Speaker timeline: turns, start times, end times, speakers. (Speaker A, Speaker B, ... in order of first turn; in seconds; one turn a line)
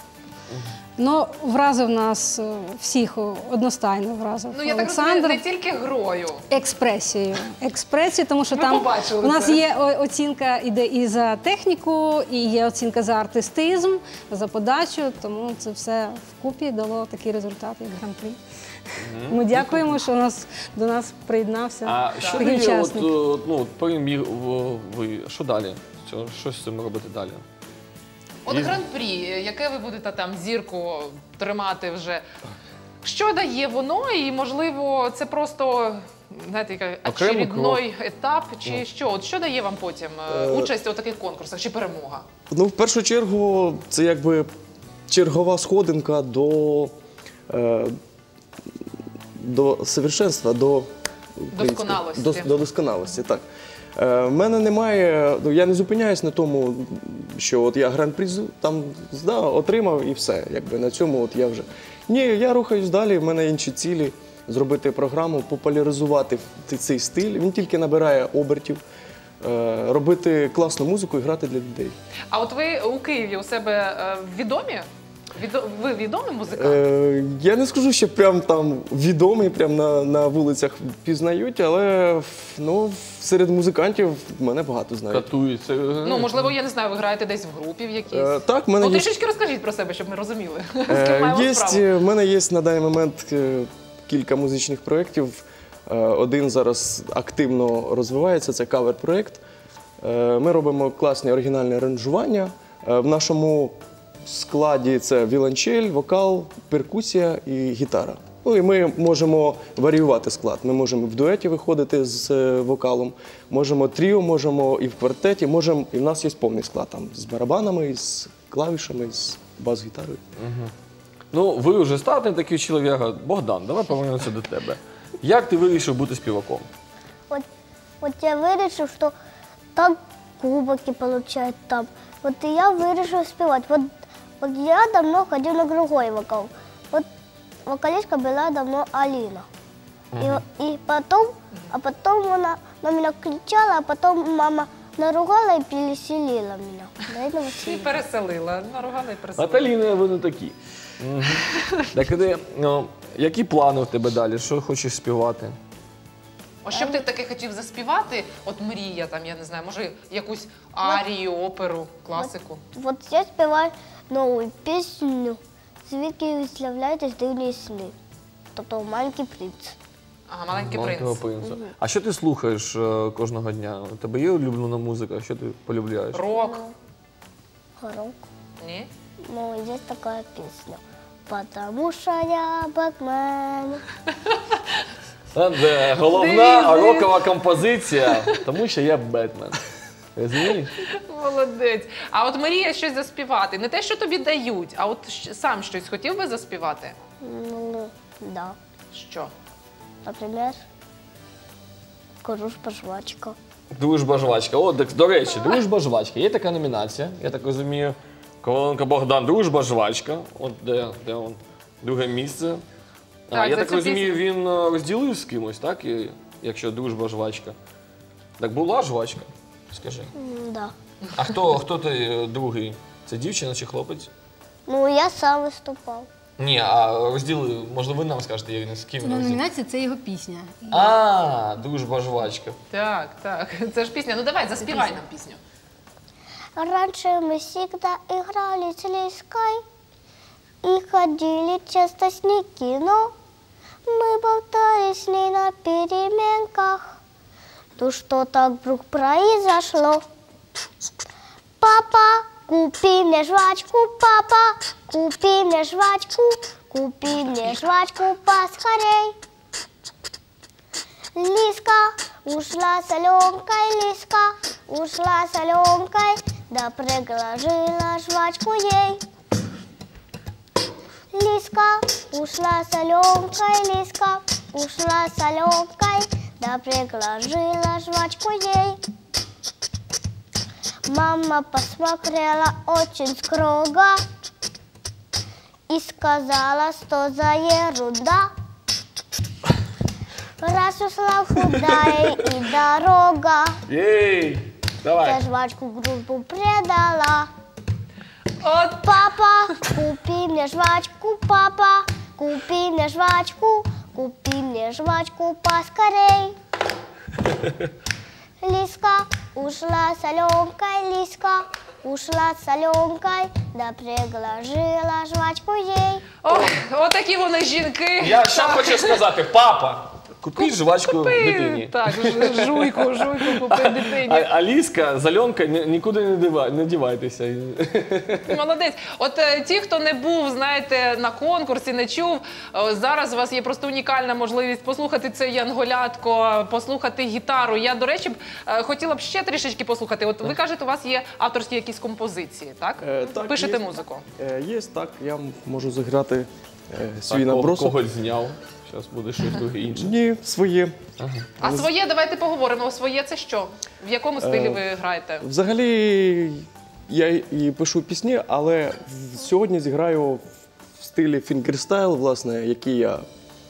Speaker A: 0.5-0.8
Speaker B: 1.0-5.4
Speaker C: 4.5-6.4
Speaker B: 6.5-18.4
Speaker C: 8.5-9.7
Speaker A: 19.0-19.9
Speaker B: 19.2-23.1
Speaker A: 21.9-27.4
Speaker C: 22.2-22.5
Speaker C: 28.5-32.2
Speaker A: 28.5-28.8
Speaker C: 33.0-42.2
Speaker A: 37.0-37.9
Speaker D: 40.3-40.7
Speaker D: 42.5-44.5
Speaker D: 45.1-46.9
Speaker D: 47.5-48.0
Speaker D: 49.4-53.4
Speaker C: 51.5-52.6
Speaker D: 54.0-68.8
Speaker D: 69.4-72.0
Speaker C: 72.3-76.8
Speaker D: 76.6-85.3
Speaker A: 85.1-86.5
Speaker C: 86.0-91.9
Speaker D: 88.1-89.1
Speaker D: 90.9-99.4
Speaker D: 100.0-120.2
Speaker A: 120.4-120.7
Speaker A: 121.3-126.7
Speaker E: 128.0-129.2
Speaker E: 129.8-137.1
Speaker E: 137.7-139.5
Speaker A: 140.1-140.4
Speaker E: 140.2-148.0
Speaker C: 147.5-149.8
Speaker A: 149.4-155.6
Speaker C: 151.3-151.8
Speaker C: 156.7-162.6
Speaker E: 156.7-157.0
Speaker E: 162.2-167.9
Speaker E: 168.6-169.8
Speaker C: 170.3-171.3
Speaker A: 170.5-176.3
Speaker E: 171.4-171.7
Speaker C: 176.1-176.6
Speaker E: 176.3-176.7
Speaker E: 177.8-178.2
Speaker C: 178.6-178.9
Speaker E: 179.3-183.8
Speaker C: 184.3-184.8
Speaker A: 185.3-189.6
Speaker C: 186.0-187.1
Speaker C: 188.1-188.4
Speaker A: 190.2-190.9
Speaker C: 190.9-197.0
Speaker E: 197.2-198.6
Speaker C: 198.9-199.3
Speaker E: 200.1-200.6
Speaker E: 202.2-203.4
Speaker A: 203.7-212.6
Speaker A: 213.3-217.6
Speaker C: 213.3-214.2
Speaker A: 218.4-220.1
Speaker E: 220.2-220.7
Speaker A: 221.2-224.1
Speaker E: 224.7-226.1
Speaker A: 226.4-229.4
Speaker B: 229.0-230.9
Speaker A: 230.7-232.6
Speaker C: 232.7-235.4
Speaker B: 234.7-234.9
Speaker E: 236.6-239.6
Speaker E: 240.6-243.1
Speaker E: 243.9-247.0
Speaker E: 247.8-250.0
Speaker E: 251.6-259.2
Speaker C: 257.1-257.8
Speaker E: 261.1-269.0
Speaker E: 271.1-278.8
Speaker E: 280.9-284.0
Speaker E: 285.7-288.3
Speaker E: 290.4-293.6
Speaker A: 293.7-295.2
Speaker E: 295.0-297.3
Speaker C: 298.4-299.1
Speaker E: 298.7-306.4
Speaker E: 308.4-316.1
Speaker C: 316.2-319.1
Speaker A: 316.3-316.6
Speaker A: 318.0-328.4
Speaker C: 320.4-324.3
Speaker C: 328.3-344.1
Speaker D: 342.8-347.8
Speaker A: 347.1-349.9
Speaker D: 349.7-350.8
Speaker A: 351.0-351.4
Speaker C: 351.4-355.2
Speaker D: 354.2-354.6
Speaker D: 355.2-360.3
Speaker D: 360.8-363.1